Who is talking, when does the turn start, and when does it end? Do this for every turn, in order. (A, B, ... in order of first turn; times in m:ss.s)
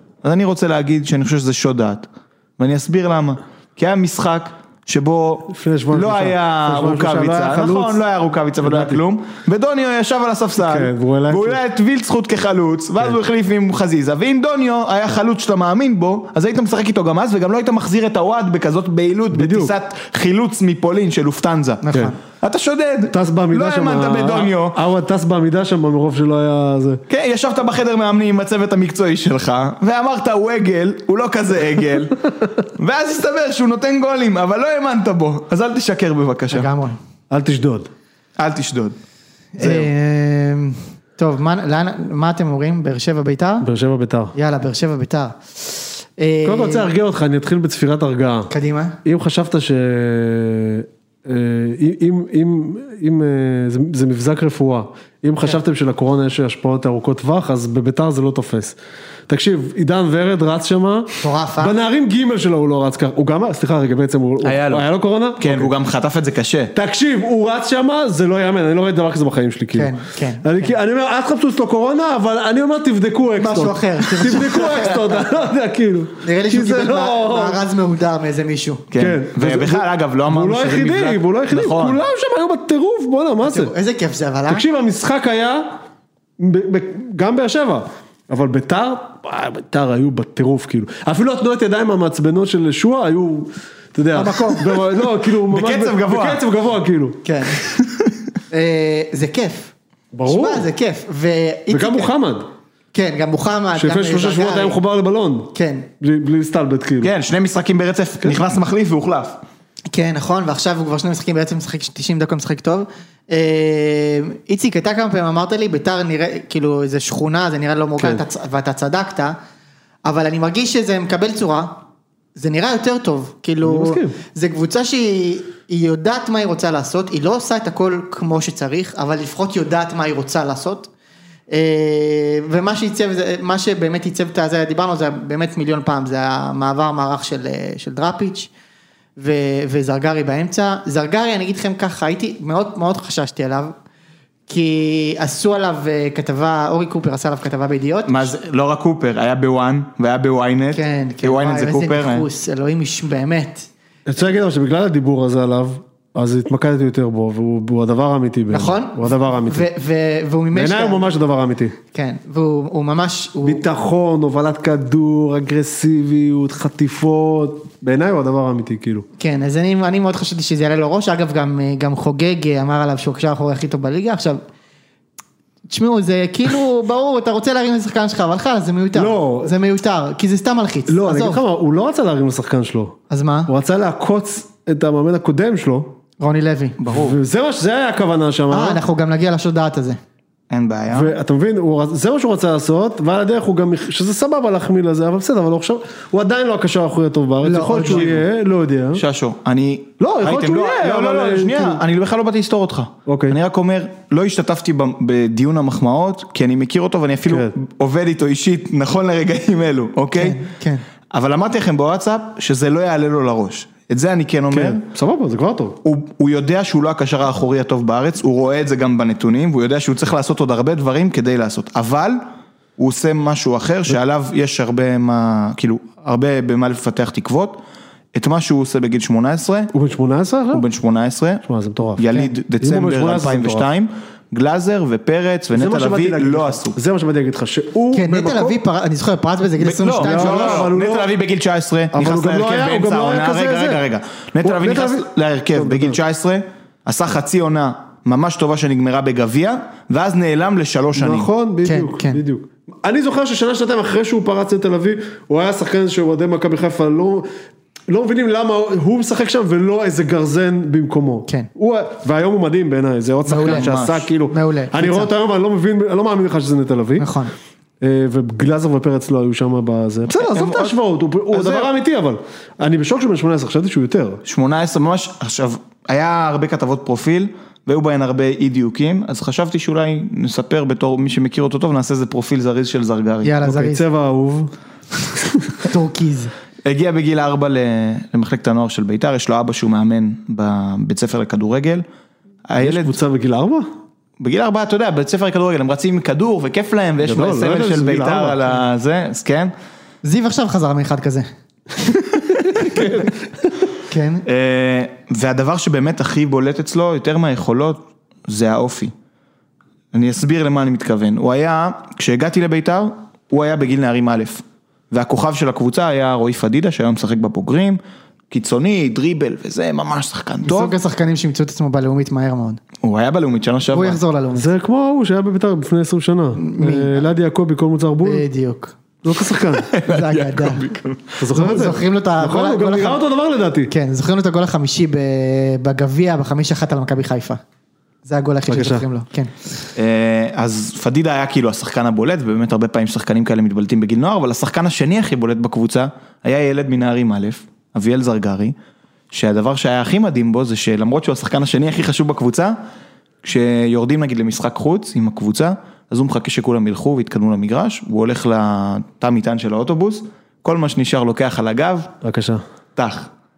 0:00.2-0:02.1 A
0:02.6-0:24.8 A
0:05.5-0:08.0 B
0:08.6-0:09.0 B
0:10.6-0:11.6 B
0:19.3-0:19.7 B
0:21.8-0:22.2 C
0:23.1-0:27.0 B
0:27.1-0:36.7 A
0:36.5-0:37.0 C
0:37.3-0:37.9 B
0:38.4-0:39.0 A
0:39.6-0:43.7 C
0:39.6-0:39.9 A
0:43.6-0:44.3 B
0:44.4-0:46.9 C
0:46.4-0:48.5 B
0:48.5-0:49.0 C
0:49.0-0:58.8 B
0:59.3-1:05.7 B
1:01.2-1:01.8 C
1:04.4-1:04.8 A
1:05.4-1:06.7 A
1:06.7-1:17.6 B
1:09.7-1:10.8 C
1:13.4-1:15.2 C
1:16.2-1:18.9 C
1:18.9-1:22.0 A
1:19.0-1:23.7 B
1:23.4-1:24.6 C
1:24.5-1:25.7 B
1:26.4-1:37.2 B
1:34.1-1:34.8 C
1:35.4-1:36.4 A
1:37.2-1:37.6 C
1:37.6-1:38.1 A
1:38.5-1:39.7 C
1:40.1-1:40.7 B
1:40.2-1:42.1 C
1:41.7-1:42.5 B
1:42.9-1:44.8 C
1:43.8-1:47.1 B
1:45.5-1:45.9 C
1:47.0-1:49.4 A
1:49.9-1:59.4 C
2:00.0-2:01.8 C
2:02.4-2:10.9 C
2:03.6-2:04.2 B
2:11.5-2:18.5 C
2:19.2-2:23.7 C
2:24.5-2:28.3 C
2:28.1-2:32.3 A
2:30.7-2:33.7 C
2:34.1-2:39.6 B
2:38.5-2:41.1 C
2:40.5-2:41.8 B
2:41.9-2:43.6 C
2:43.4-2:49.1 B
2:49.2-2:54.4 C
2:55.7-3:01.4 C
2:59.0-2:59.5 B
3:00.9-3:06.0 B
3:03.1-3:03.5 C
3:06.2-3:06.8 C
3:06.8-3:07.2 A
3:06.9-3:08.8 B
3:08.5-3:10.0 C
3:10.5-3:11.1 A
3:10.9-3:19.0 B
3:17.4-3:18.1 C
3:17.7-3:18.3 A
3:18.9-3:30.4 A
3:20.0-3:21.8 B
3:23.1-3:23.4 B
3:27.3-3:27.6 B
3:30.1-3:30.8 C
3:31.1-3:34.8 A
3:34.5-3:35.8 B
3:35.8-3:42.2 A
3:42.8-3:47.6 A
3:48.1-3:49.7 A
3:49.7-3:50.7 B
3:50.5-3:51.4 A
3:51.5-3:52.1 B
3:52.0-3:56.8 A
3:52.6-3:53.7 B
3:55.5-3:58.6 B
3:57.9-4:00.7 C
3:59.6-4:11.3 A
4:00.0-4:01.1 B
4:01.9-4:03.8 B
4:04.4-4:06.0 B
4:11.0-4:17.3 B
4:11.6-4:12.2 C
4:17.9-4:27.1 B
4:23.3-4:23.7 C
4:23.4-4:24.1 A
4:24.3-4:25.1 C
4:27.0-4:27.3 C
4:27.8-4:34.2 B
4:30.1-4:30.8 A
4:31.3-4:31.7 A
4:34.2-4:43.3 A
4:43.2-4:43.8 C
4:43.4-4:44.5 B
4:45.1-4:45.6 B
4:45.6-4:46.3 C
4:46.6-4:51.8 A
4:52.5-4:53.0 A
4:52.6-4:53.7 B
4:54.2-4:59.5 A
4:57.0-4:58.6 B
5:00.0-5:01.3 C
5:02.1-5:03.0 A
5:02.6-5:03.4 B
5:03.9-5:04.2 C
5:04.3-5:08.9 A
5:09.9-5:17.8 A
5:18.3-5:20.8 A
5:20.4-5:22.6 C
5:22.8-5:24.0 A
5:23.7-5:24.5 C
5:24.4-5:28.2 B
5:26.4-5:27.1 C
5:28.0-5:28.8 C
5:29.0-5:29.7 B
5:29.6-5:31.2 A
5:29.8-5:30.8 C
5:31.2-5:33.7 B
5:31.3-5:33.0 C
5:33.7-5:37.4 C
5:38.0-5:39.3 C
5:38.5-5:38.9 B
5:39.8-5:48.6 A
5:49.1-5:52.6 A
5:53.2-6:01.9 A
6:02.0-6:02.4 B
6:02.8-6:03.1 A